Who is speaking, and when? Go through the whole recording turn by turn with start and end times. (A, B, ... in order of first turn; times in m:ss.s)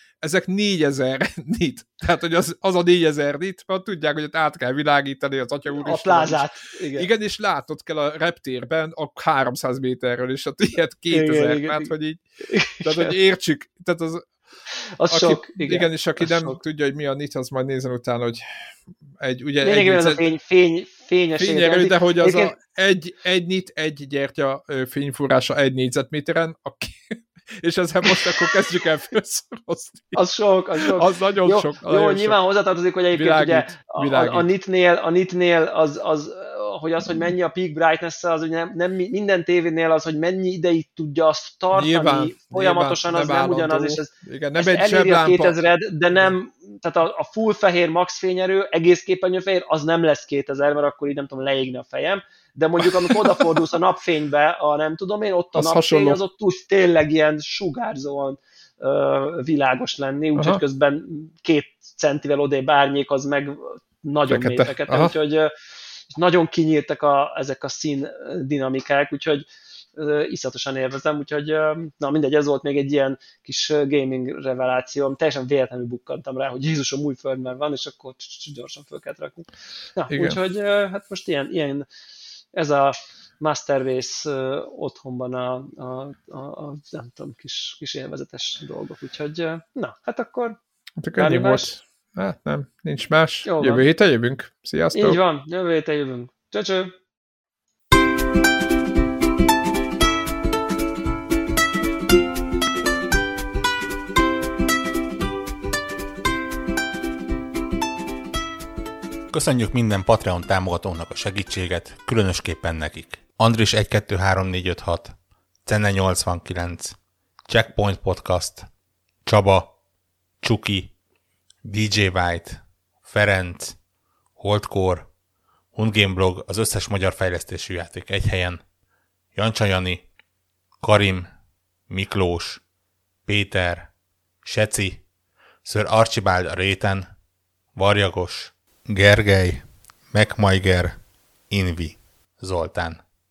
0:00.2-0:12.2 A
0:05.7-0:07.1 B
0:11.1-0:11.9 B
0:12.4-0:13.2 B
0:12.8-0:14.3 A
0:15.0-0:16.6 B
0:15.1-0:18.4 A
0:19.2-0:20.2 A
0:19.6-0:22.6 B
0:21.4-0:30.2 A
0:28.1-0:28.4 B
0:30.2-1:05.5 B
0:30.8-0:32.4 A
0:33.1-0:34.5 A
0:41.7-0:45.6 A
0:52.8-0:53.6 A
0:55.6-0:56.2 A
1:00.4-1:00.6 A
1:04.3-1:05.1 A
1:06.1-1:21.9 B
1:20.1-1:20.4 A
1:22.5-1:30.6 B
1:31.0-1:35.2 A
1:31.2-1:31.7 B
1:33.4-1:33.9 B
1:34.9-1:37.0 B
1:49.3-1:58.7 C
1:59.2-1:59.8 C
2:00.4-2:00.9 C
2:01.6-2:03.8 C
2:04.4-2:05.1 C
2:05.7-2:08.6 C
2:09.3-2:10.0 C
2:10.8-2:11.3 C
2:11.9-2:12.6 C
2:13.3-2:13.9 C
2:14.4-2:15.0 C
2:15.6-2:17.1 C
2:17.8-2:21.0 C
2:21.5-2:23.0 C